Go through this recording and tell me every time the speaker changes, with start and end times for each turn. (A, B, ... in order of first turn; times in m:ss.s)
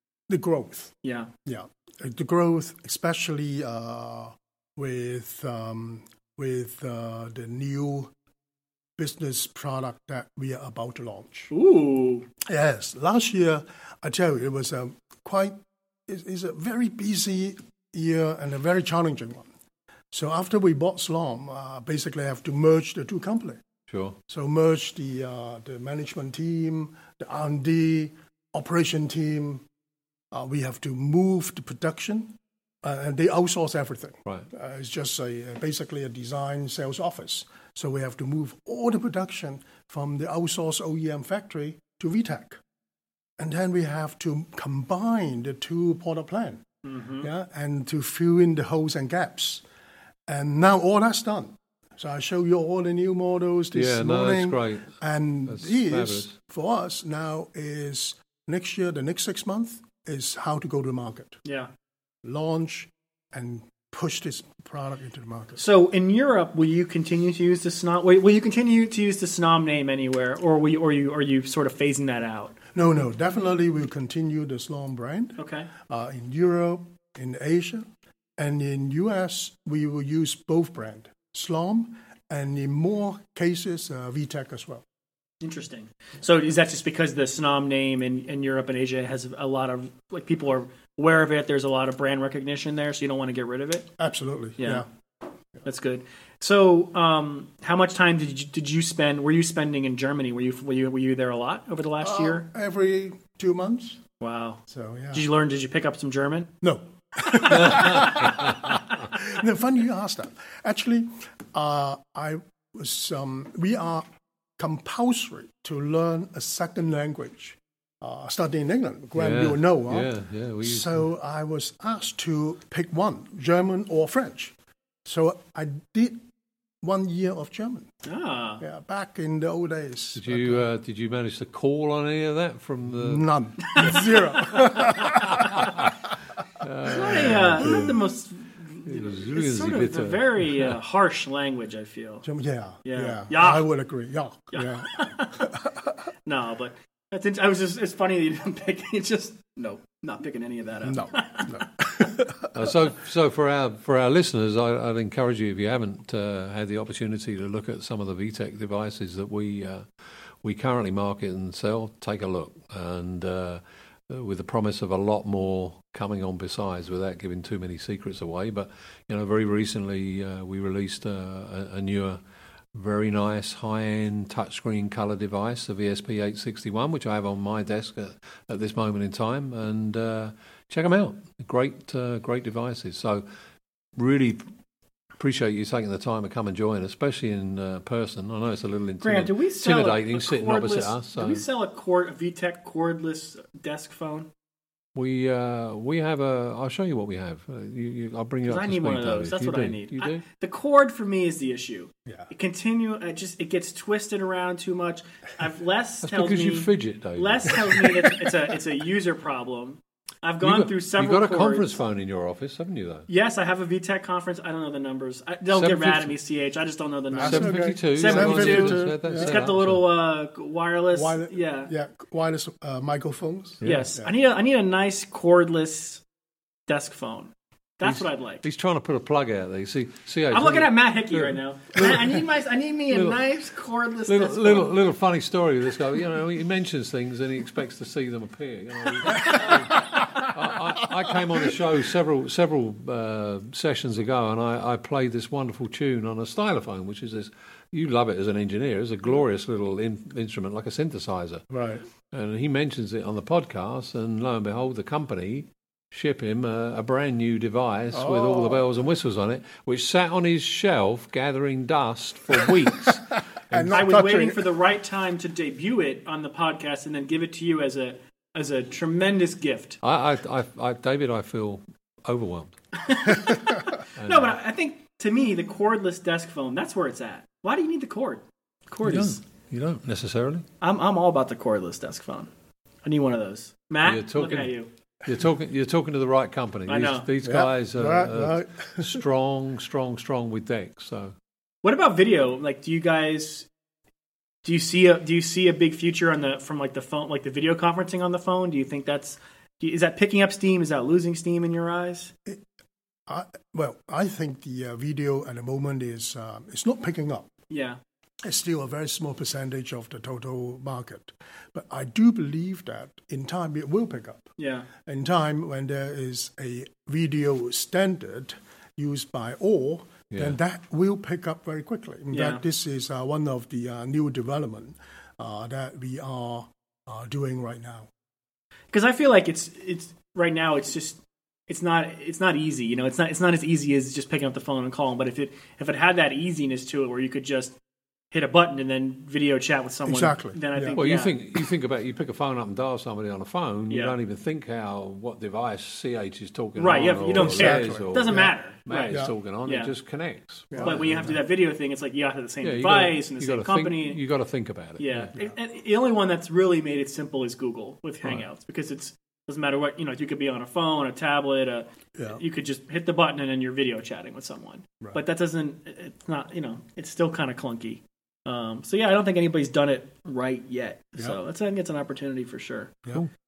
0:00.3-0:00.9 A
0:01.0-0:01.3 B
0:01.4-0:08.1 A
0:09.0-0:11.5 A
0:11.5-0:12.3 B
0:12.4-0:19.5 A
0:20.1-0:23.6 A
0:23.9-0:24.2 C
0:24.3-0:29.6 A
0:30.3-0:42.6 A
0:43.4-0:46.6 A
0:46.8-0:47.3 B
0:47.2-0:49.6 A
0:50.3-1:01.4 A
0:53.7-0:54.9 C
0:55.5-0:56.3 C
1:01.4-1:01.7 B
1:02.2-1:05.6 A
1:05.6-1:12.6 B
1:12.7-1:17.9 A
1:15.4-1:15.7 B
1:18.4-1:24.8 A
1:25.4-1:33.9 B
1:34.0-1:34.9 A
1:34.6-1:34.8 B
1:35.6-1:42.4 B
1:42.0-1:44.0 A
1:44.2-1:44.6 B
1:44.7-1:45.3 A
1:45.1-1:46.5 B
1:46.6-1:54.1 A
1:47.6-1:48.7 C
1:54.6-2:04.5 A
1:59.2-2:01.1 C
2:05.0-2:06.2 A
2:06.8-2:07.9 A
2:08.0-2:08.6 B
2:08.6-2:10.6 A
2:10.2-2:13.2 C
2:12.9-2:15.9 A
2:13.7-2:14.8 B
2:15.2-2:15.9 C
2:16.6-2:18.0 C
2:16.8-2:22.2 B
2:17.1-2:17.8 A
2:18.9-2:20.7 C
2:22.2-2:25.9 A
2:22.8-2:23.7 B
2:24.5-2:25.5 B
2:26.3-2:31.6 B
2:30.8-2:32.7 A
2:32.5-2:39.9 C
2:40.4-2:52.2 C
2:52.7-3:03.3 C
3:04.0-3:04.4 C
3:05.2-3:11.5 C
3:09.0-3:14.3 B
3:15.0-3:20.2 C
3:18.4-3:31.8 B
3:26.0-3:28.1 C
3:30.4-3:33.1 C
3:33.1-3:41.7 B
3:35.5-3:36.2 C
3:37.1-3:39.4 A
3:37.2-3:39.9 C
3:40.9-3:44.1 A
3:43.6-3:43.9 C
3:43.6-3:46.0 B
3:46.7-3:48.4 B
3:47.8-3:52.2 C
3:50.3-3:54.7 B
3:52.9-3:53.2 C
3:54.1-4:11.5 C
3:59.2-3:59.8 A
4:11.5-4:11.8 A
4:12.1-4:23.9 C
4:17.9-4:18.6 A
4:23.5-4:24.5 A
4:23.7-4:29.8 B
4:29.8-4:32.6 C
4:32.8-4:39.2 B
4:34.0-4:34.3 C
4:38.8-4:40.5 C
4:40.6-4:42.3 B
4:42.8-4:44.7 B
4:43.8-4:51.1 C
4:46.7-4:47.1 B
4:47.2-4:49.0 A
4:51.6-4:53.5 B
4:54.4-5:02.1 B
5:03.1-5:07.3 A
5:07.5-5:07.8 B
5:08.2-5:27.9 A
5:14.4-5:14.7 B
5:22.1-5:22.4 B
5:28.7-5:37.6 B
5:38.1-5:41.1 B
5:39.9-5:40.8 A
5:40.8-5:51.2 C
5:43.7-5:44.0 B
5:46.6-5:49.7 B
5:47.1-5:48.3 A
5:50.5-5:51.2 A
5:50.6-5:54.0 B
5:52.4-5:55.1 C
5:54.8-6:12.8 B
6:02.0-6:02.2 A